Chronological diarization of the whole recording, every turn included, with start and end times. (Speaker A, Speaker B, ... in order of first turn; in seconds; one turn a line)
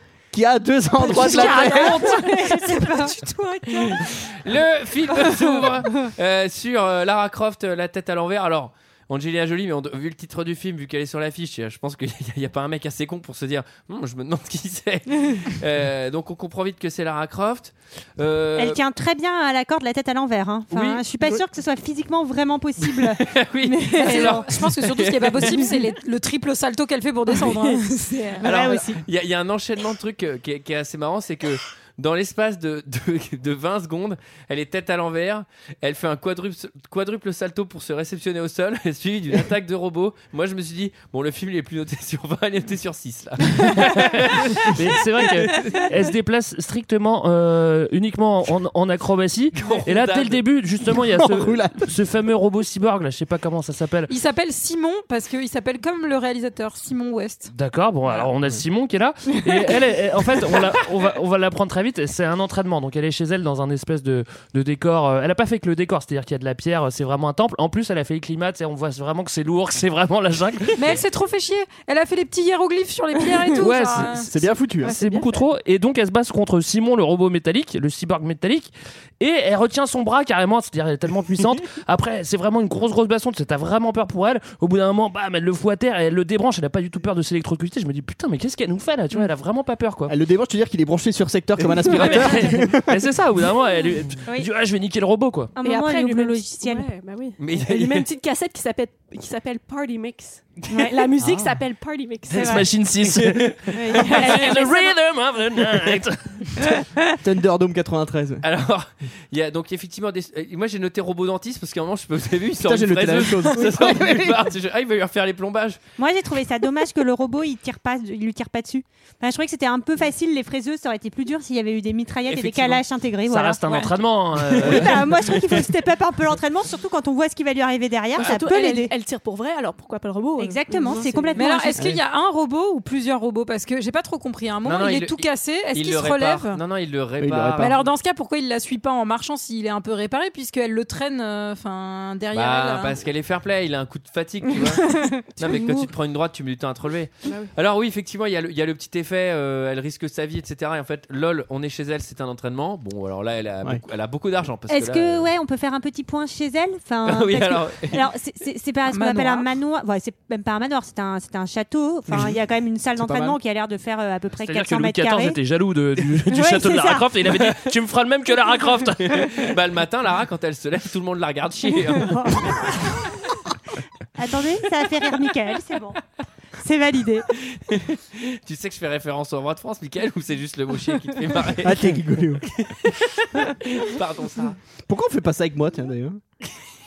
Speaker A: 0.3-2.2
Speaker B: 1.0-4.2
Speaker C: 1.2-3.1
Speaker D: 3.8-18.8
Speaker B: 5.1-6.1
Speaker B: 18.6-24.5
Speaker D: 20.7-21.0
Speaker D: 22.8-25.8
Speaker C: 23.9-28.7
Speaker D: 28.4-44.8
Speaker B: 28.4-29.0
Speaker E: 44.6-54.1
Speaker D: 45.5-45.8
Speaker D: 49.5-50.4
Speaker A: 50.9-51.9
Speaker C: 54.1-57.5
Speaker E: 57.5-71.0
Speaker C: 70.8-74.3
Speaker E: 73.5-74.3
Speaker A: 74.1-74.9
Speaker F: 74.8-75.5
Speaker E: 74.8-90.1
Speaker A: 90.1-92.9
Speaker E: 91.8-95.5
Speaker B: 95.5-96.9
Speaker F: 95.6-102.6
Speaker D: 97.4-98.1
Speaker B: 100.7-101.0
Speaker E: 102.3-106.5
Speaker B: 102.3-102.7
Speaker D: 103.1-103.5
Speaker B: 103.7-104.9
Speaker F: 103.9-104.9
Speaker A: 107.2-108.4
Speaker D: 108.4-115.8
Speaker A: 112.6-114.5
Speaker B: 116.0-123.9
Speaker D: 122.3-122.8
Speaker E: 123.3-125.3
Speaker D: 124.4-124.9
Speaker B: 124.6-128.9
Speaker F: 128.2-131.4
Speaker B: 130.4-131.8
Speaker C: 131.3-136.6
Speaker A: 131.8-132.0
Speaker D: 134.6-137.9
Speaker A: 137.2-137.7
Speaker C: 137.6-143.0
Speaker D: 142.3-155.3
Speaker F: 147.2-147.5
Speaker B: 154.7-165.4
Speaker D: 157.0-158.1
Speaker C: 158.9-159.5
Speaker A: 162.1-162.4
Speaker A: 162.9-163.4
Speaker E: 164.4-169.4
Speaker B: 166.3-167.1
Speaker D: 169.0-172.5
Speaker B: 171.9-173.0
Speaker B: 174.2-176.0
Speaker B: 176.6-177.3
Speaker D: 177.4-184.6
Speaker A: 181.6-182.4
Speaker A: 184.9-186.2